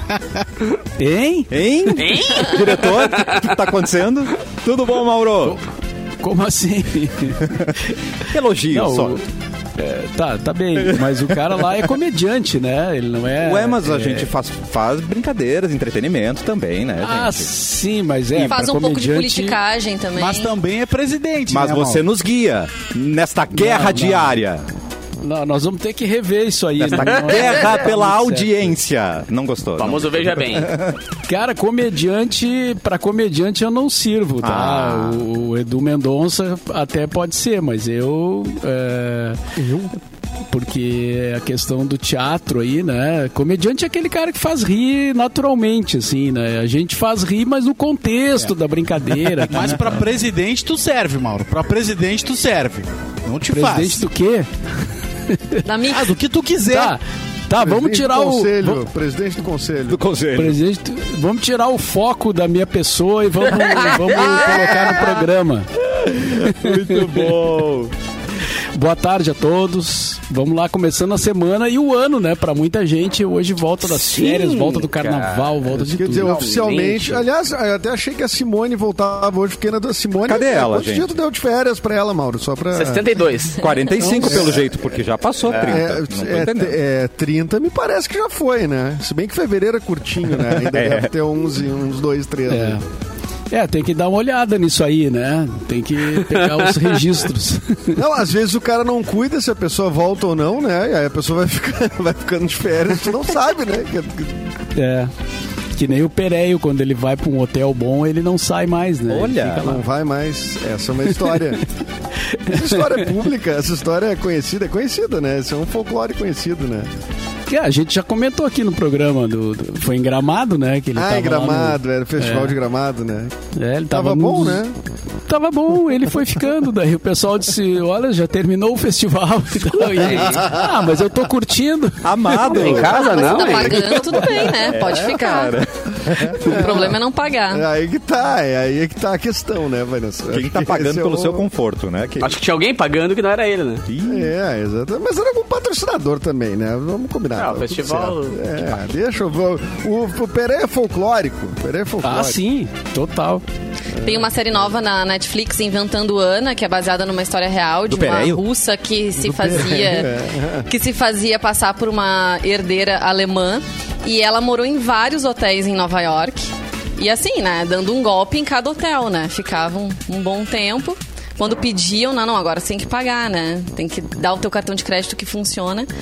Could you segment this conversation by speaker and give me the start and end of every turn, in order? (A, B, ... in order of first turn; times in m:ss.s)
0:01.0-0:01.5 A
0:01.5-0:05.6 B
0:02.0-0:03.3 C
0:06.2-0:07.7 A
0:08.3-0:09.2 B
0:08.7-0:09.2 A
0:09.8-0:14.3 A
0:13.4-0:17.5 B
0:17.0-0:19.6 A
0:18.4-0:18.6 B
0:18.4-0:20.5 D
0:20.1-0:22.0 E
0:21.5-0:24.7 B
0:23.5-0:24.4 A
0:25.2-0:28.8 A
0:26.8-0:31.0 B
0:29.8-0:30.8 C
0:31.3-0:39.5 A
0:34.4-0:35.2 B
0:40.5-0:49.9 A
0:49.5-0:54.0 E
0:53.5-0:54.5 A
0:55.3-0:55.6 A
0:55.6-0:56.1 D
0:55.8-0:57.0 E
0:56.6-0:58.8 A
0:57.6-1:00.0 F
0:59.9-1:00.6 B
1:00.3-1:05.7 A
1:03.7-1:05.0 B
1:05.9-1:07.9 B
1:06.2-1:07.2 A
1:08.7-1:16.4 A
1:13.8-1:15.6 C
1:16.0-1:23.1 F
1:16.1-1:17.2 C
1:20.2-1:21.1 B
1:22.7-1:24.1 C
1:23.6-1:26.7 B
1:24.2-1:24.9 F
1:25.5-1:32.8 F
1:30.5-1:31.1 B
1:32.5-1:32.8 A
1:33.5-1:38.0 A
1:37.9-1:44.5 F
1:44.7-1:45.1 A
1:45.8-1:49.8 A
1:49.1-1:49.7 B
1:49.6-1:51.6 F
1:52.5-1:56.9 F
1:52.5-1:53.0 A
1:57.5-2:02.5 A
2:00.9-2:03.3 F
2:03.5-2:04.6 A
2:03.9-2:04.8 F
2:05.3-2:12.7 A
2:09.8-2:10.5 C
2:10.2-2:10.5 F
2:12.0-2:16.6 B
2:12.5-2:13.9 C
2:12.9-2:15.6 D
2:16.1-2:16.9 F
2:16.4-2:17.6 D
2:17.5-2:21.5 F
2:20.3-2:22.3 B
2:22.2-2:23.8 C
2:23.9-2:24.3 B
2:24.0-2:32.4 F
2:27.4-2:28.4 C
2:32.0-2:33.4 A
2:33.9-2:34.3 F
2:34.0-2:40.1 D
2:37.9-2:38.4 B
2:39.2-2:40.7 F
2:40.7-2:55.9 D